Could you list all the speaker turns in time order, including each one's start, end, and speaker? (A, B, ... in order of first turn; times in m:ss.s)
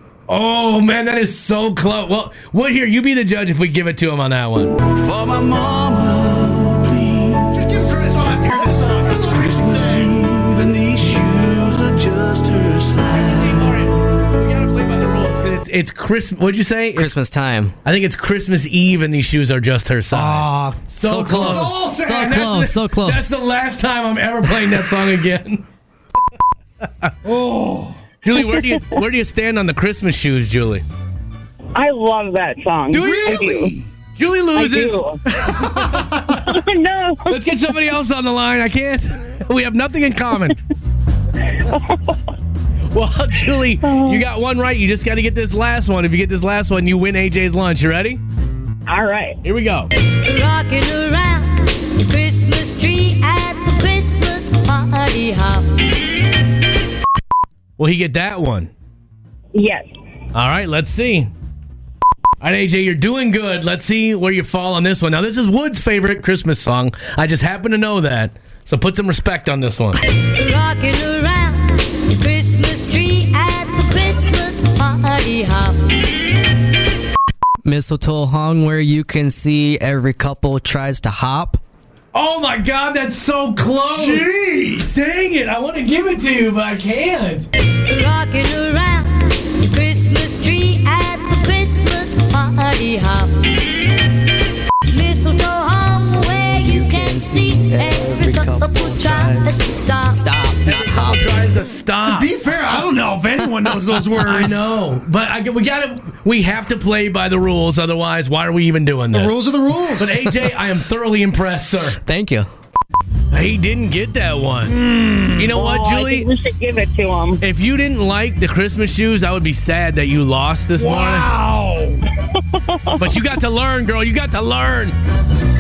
0:00.3-0:04.8 A
0:04.9-0:07.5 B
0:07.5-0:10.1 C
0:09.1-0:13.7 B
0:13.1-0:17.1 A
0:17.0-0:17.7 D
0:17.8-0:25.6 A
0:20.1-0:23.3 D
0:21.2-0:22.5 C
0:27.2-0:28.0 C
0:28.2-0:30.8 A
0:31.7-0:33.7 E
0:32.9-0:33.4 A
0:32.9-0:33.9 C
0:34.2-0:35.0 A
0:34.6-0:35.2 E
0:35.4-0:36.0 C
0:35.6-0:36.6 A
0:36.4-0:37.3 E
0:37.3-0:40.6 A
0:41.7-0:42.0 E
0:42.9-0:48.2 A
0:43.9-0:44.2 E
0:48.9-0:49.4 E
0:49.4-0:49.9 A
0:50.2-0:55.8 F
0:57.8-0:58.7 A
0:59.5-0:59.9 E
1:00.3-1:01.3 A
1:02.4-1:10.0 A
1:10.1-1:15.8 F
1:17.6-1:21.6 D
1:22.1-1:24.3 A
1:23.8-1:25.1 C
1:24.8-1:27.5 A
1:27.8-1:33.7 F
1:34.9-1:40.3 F
1:36.5-1:41.0 D
1:40.6-1:42.3 A
1:42.0-1:44.8 C
1:44.2-1:49.4 A
1:49.1-1:50.4 C
1:50.0-1:52.0 A
1:52.0-1:52.5 D
1:53.3-1:54.8 A
1:54.6-1:55.6 C
1:55.4-1:56.3 A
1:55.5-1:57.4 E
1:57.4-2:01.3 A
2:00.8-2:02.0 C
2:02.7-2:03.0 E
2:03.0-2:04.9 A